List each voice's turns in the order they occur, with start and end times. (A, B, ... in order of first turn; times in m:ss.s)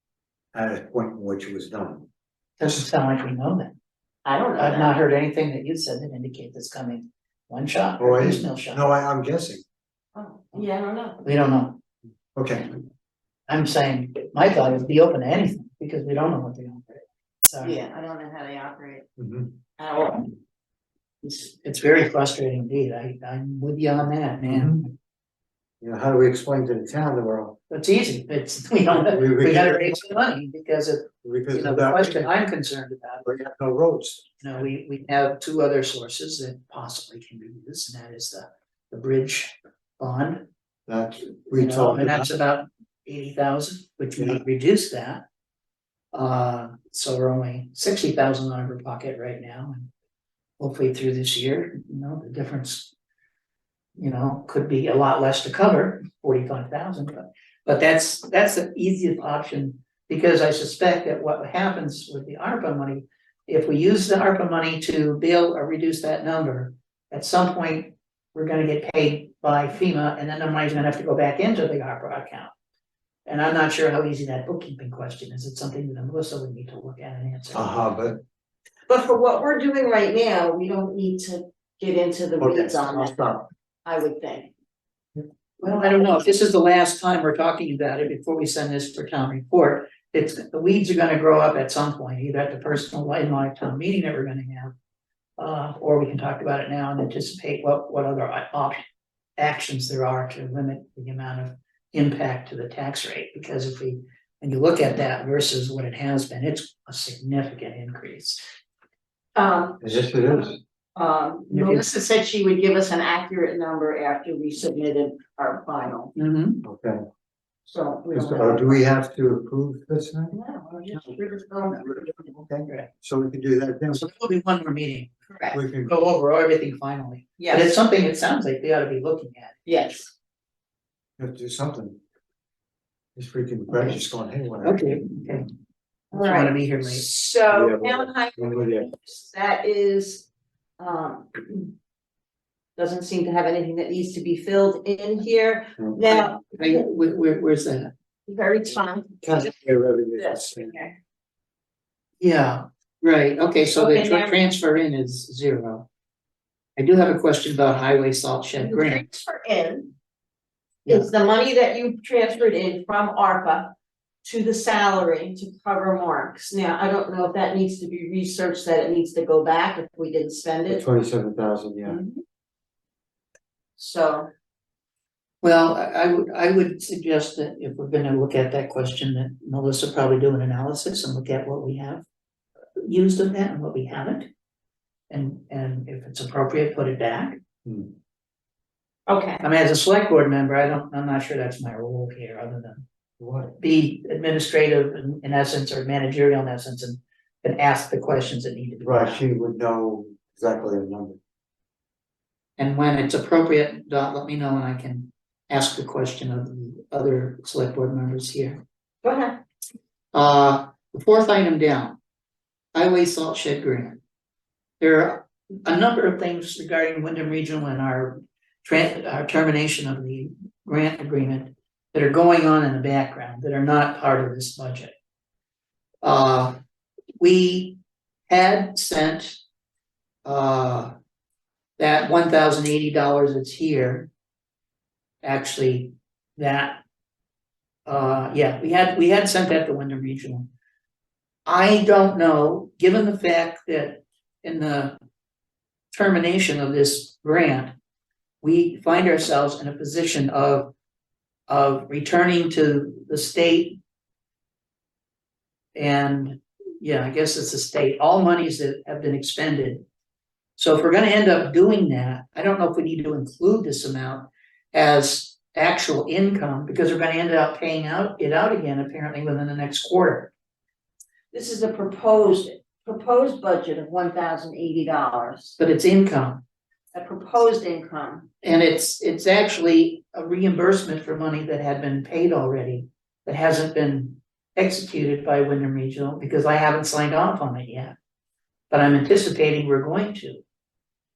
0:00.5-0:02.1 A
0:02.6-0:03.8 B
0:04.2-0:05.0 C
0:04.6-0:08.8 B
0:08.0-0:09.6 A
0:10.2-0:11.2 C
0:11.2-0:11.8 B
0:12.4-0:12.7 A
0:13.5-0:17.8 B
0:17.6-0:19.1 C
0:19.2-0:19.6 A
0:19.8-0:20.3 C
0:21.2-0:24.9 B
0:24.5-0:24.8 A
0:25.8-0:27.6 A
0:27.7-0:33.2 B
0:28.9-0:30.1 A
0:31.2-0:32.3 A
0:33.2-0:34.4 A
0:34.4-0:40.5 B
0:40.9-0:42.3 A
0:41.5-0:45.2 B
0:46.1-0:49.9 B
0:50.6-0:52.9 B
0:54.0-1:12.5 B
1:13.3-1:17.7 B
1:17.5-1:18.2 A
1:18.9-1:23.2 C
1:22.4-1:23.5 A
1:23.8-1:24.5 C
1:25.6-1:34.7 B
1:35.4-1:38.8 B
1:39.4-1:48.4 B
1:49.4-1:56.1 C
1:49.8-1:50.6 A
1:51.5-1:51.8 B
1:56.2-1:56.6 B
1:56.6-1:57.0 A
1:57.6-1:58.8 C
1:58.1-2:00.4 A
2:00.3-2:02.3 C
2:01.8-2:04.1 A
2:02.6-2:02.9 B
2:03.9-2:05.1 B
2:05.3-2:05.6 C
2:05.5-2:06.0 A
2:05.8-2:09.6 B
2:07.4-2:07.8 C
2:09.7-2:10.1 C
2:11.2-2:12.0 A
2:13.2-2:14.9 A
2:13.7-2:14.0 B
2:14.6-2:15.5 B
2:16.1-2:17.0 B
2:16.1-2:20.3 C
2:17.5-2:18.9 A
2:20.8-2:21.7 C
2:22.8-2:26.8 C
2:26.0-2:27.9 B
2:28.3-2:29.6 C
2:29.2-2:30.7 A
2:30.2-2:31.0 C
2:32.2-2:35.9 B
2:33.8-2:34.4 C
2:36.8-2:39.0 B
2:38.6-2:39.9 C
2:40.9-2:50.8 C
2:50.7-2:52.0 A
2:51.9-2:52.2 B
2:53.8-2:54.3 C
2:55.4-3:02.0 B
3:02.8-3:04.3 B
3:05.1-3:07.4 B
3:07.6-3:07.9 A
3:09.1-3:09.4 C
3:09.4-3:12.8 B
3:13.2-3:13.6 A
3:13.6-3:19.2 B
3:18.8-3:21.2 A
3:22.6-3:28.6 B
3:29.0-3:29.4 C
3:30.1-3:32.0 B
3:32.7-3:34.0 B
3:34.8-3:44.9 B
3:46.0-3:46.6 B
3:47.2-3:49.4 B
3:50.2-3:50.9 B
3:51.8-3:54.1 B
3:55.2-3:56.8 B
3:57.9-4:00.5 B
4:01.5-4:05.0 B
4:05.9-4:07.7 B
4:08.4-4:10.7 B
4:11.5-4:13.8 B
4:15.8-4:19.8 B
4:20.6-4:30.3 B
4:31.3-4:35.6 C
4:35.6-4:36.4 B
4:36.9-4:38.3 C
4:38.4-4:48.0 B
4:48.7-4:50.4 B